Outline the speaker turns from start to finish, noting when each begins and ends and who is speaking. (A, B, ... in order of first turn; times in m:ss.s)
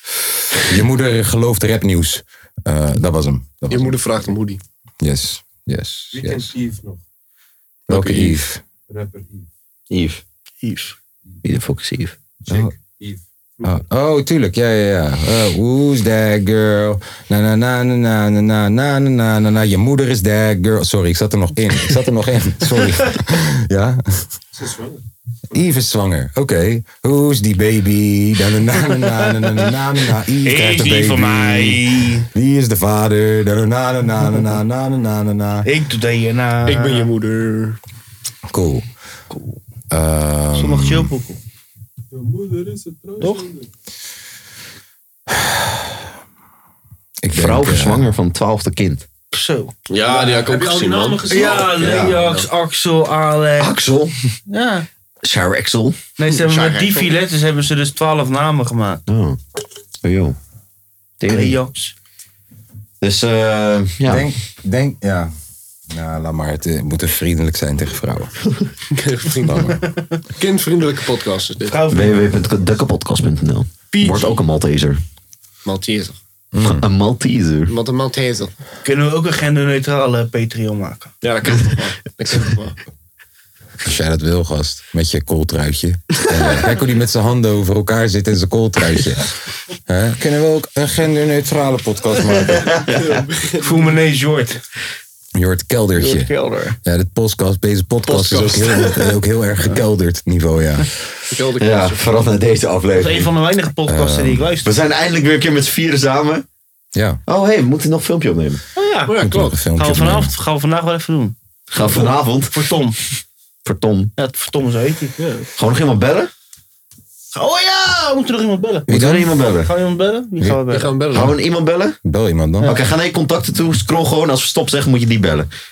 0:00.5-0:04.3 A
0:03.7-0:04.6 B
0:05.0-0:06.5 A
0:06.1-0:07.0 C
0:07.9-0:08.6 A
0:07.9-0:08.2 D
0:08.9-0:09.5 C
0:09.9-0:10.2 D
0:10.6-0:11.0 E
0:11.4-0:12.7 D
0:12.4-0:13.8 C
0:13.6-0:24.2 A
0:24.6-0:25.0 C
0:25.5-0:35.7 A
0:30.4-0:32.3 E
0:35.6-0:37.1 E
0:36.6-0:37.8 B
0:38.5-0:38.8 A
0:39.3-0:39.6 E
0:39.9-0:41.1 A
0:40.6-0:41.4 E
0:42.1-0:43.7 C
0:43.2-0:43.5 E
0:45.3-0:45.9 A
0:47.2-0:48.0 A
0:47.3-0:49.1 D
0:49.3-0:50.5 E
0:49.9-0:51.6 B
0:50.4-0:52.5 C
0:51.3-0:53.8 E
0:51.7-0:52.2 D
0:53.6-0:54.1 D
0:54.5-0:54.9 E
0:55.2-0:56.0 D
0:56.2-0:59.0 E
0:56.3-0:57.1 B
0:59.1-0:59.4 D
1:00.0-1:00.4 D
1:01.2-1:01.6 D
1:01.3-1:01.9 E
1:03.0-1:04.3 D
1:04.1-1:05.3 A
1:05.9-1:08.3 A
1:08.9-1:09.8 B
1:09.4-1:09.8 A
1:10.4-1:11.8 B
1:11.7-1:12.2 E
1:11.9-1:15.0 D
1:13.9-1:14.4 B
1:15.6-1:16.2 B
1:16.5-1:16.8 A
1:16.6-1:17.7 D
1:17.7-1:18.5 B
1:18.8-1:21.1 E
1:21.2-1:22.8 B
1:23.8-1:29.3 A
1:29.9-1:32.7 A
1:32.7-1:33.0 D
1:32.9-1:34.0 B
1:33.6-1:34.6 E
1:35.4-1:36.3 A
1:36.0-1:36.8 E
1:36.8-1:40.9 A
1:38.3-1:38.6 D
1:38.5-1:38.8 B
1:41.3-1:42.0 B
1:41.6-1:43.3 D
1:42.9-1:44.8 E
1:43.9-1:44.5 A
1:44.6-1:46.4 D
1:47.0-1:47.2 A
1:47.3-1:48.6 D
1:48.8-1:49.2 E
1:49.1-1:49.6 B
1:49.2-1:50.3 A
1:49.8-1:51.4 E
1:51.7-1:52.6 D
1:51.9-1:53.0 E
1:53.6-1:54.1 D
1:54.2-1:55.2 E
1:55.2-1:55.5 B
1:55.6-1:56.3 D
1:57.3-1:58.9 E
1:58.9-1:59.3 A
1:58.9-1:59.7 D
1:59.6-2:01.0 E
2:00.7-2:01.3 B
2:01.1-2:02.0 D
2:02.0-2:02.8 A
2:02.6-2:05.5 D